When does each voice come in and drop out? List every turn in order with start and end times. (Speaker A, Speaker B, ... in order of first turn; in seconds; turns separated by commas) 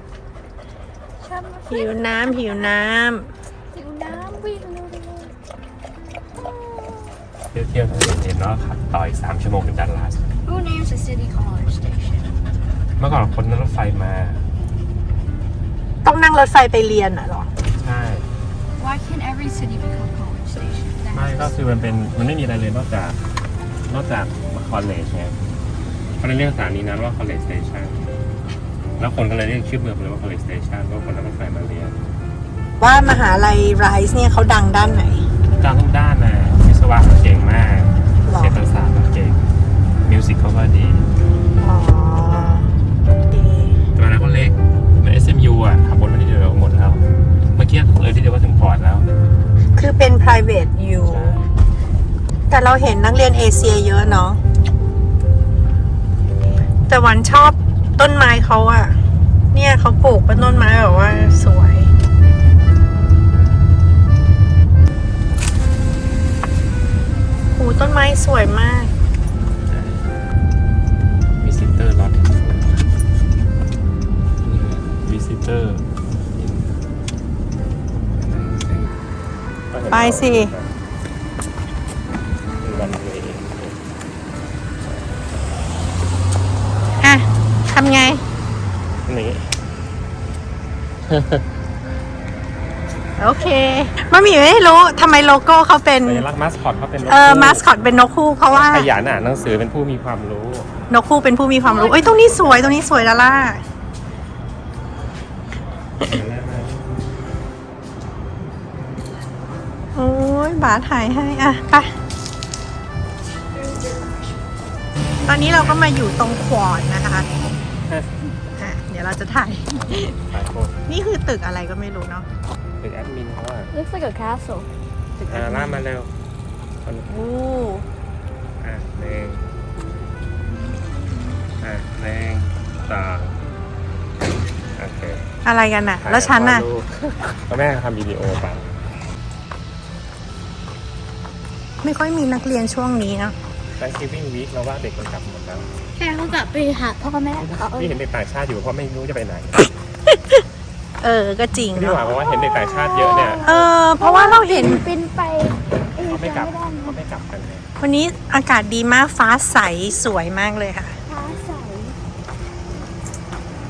Speaker A: 1.2-2.7, Speaker B: 1.7-3.3, Speaker A: 3.7-5.3, Speaker A: 6.4-7.2, Speaker C: 7.5-10.2, Speaker A: 10.4-12.3, Speaker C: 13.0-14.5, Speaker B: 16.0-17.5, Speaker C: 17.7-18.3, Speaker A: 18.8-21.5, Speaker C: 21.1-23.2, Speaker C: 23.9-25.4, Speaker C: 26.2-28.0, Speaker C: 29.0-32.0, Speaker B: 32.8-35.2, Speaker C: 35.6-39.4, Speaker B: 38.3-38.6, Speaker C: 40.0-41.1, Speaker B: 41.6-42.7, Speaker B: 43.3-43.8, Speaker C: 43.9-47.0, Speaker C: 47.5-49.1, Speaker B: 49.7-51.4, Speaker C: 51.0-51.4, Speaker B: 52.5-54.4, Speaker B: 56.9-58.9, Speaker B: 59.5-61.9, Speaker B: 67.5-68.9, Speaker C: 69.6-70.4, Speaker C: 71.4-72.9, Speaker C: 74.4-76.6, Speaker C: 78.1-79.0, Speaker C: 79.7-80.7, Speaker B: 79.9-80.5, Speaker C: 82.6-83.8, Speaker B: 87.0-88.2, Speaker C: 89.0-89.5, Speaker C: 91.1-91.4, Speaker B: 93.2-96.3, Speaker C: 96.0-97.7, Speaker B: 97.0-98.9, Speaker C: 98.5-100.7, Speaker B: 100.9-103.6, Speaker A: 101.7-102.4, Speaker C: 102.4-103.1, Speaker C: 106.0-106.8, Speaker B: 109.9-111.9, Speaker A: 113.6-114.3, Speaker B: 115.2-117.3, Speaker B: 118.6-119.9, Speaker C: 119.7-120.8, Speaker B: 120.9-122.3, Speaker C: 122.8-123.7, Speaker A: 123.7-124.7, Speaker B: 125.2-125.8, Speaker C: 125.3-126.1, Speaker B: 127.0-127.9, Speaker C: 128.6-129.4, Speaker C: 131.6-133.4, Speaker C: 134.8-135.2, Speaker B: 135.4-136.7, Speaker C: 136.0-138.8, Speaker B: 141.8-143.3, Speaker C: 143.8-145.7, Speaker A: 146.0-148.0, Speaker C: 147.4-149.7, Speaker B: 151.0-152.1, Speaker C: 151.7-153.5, Speaker A: 152.2-157.0, Speaker B: 153.4-154.8, Speaker C: 155.9-157.7, Speaker B: 157.8-161.0, Speaker A: 161.1-162.0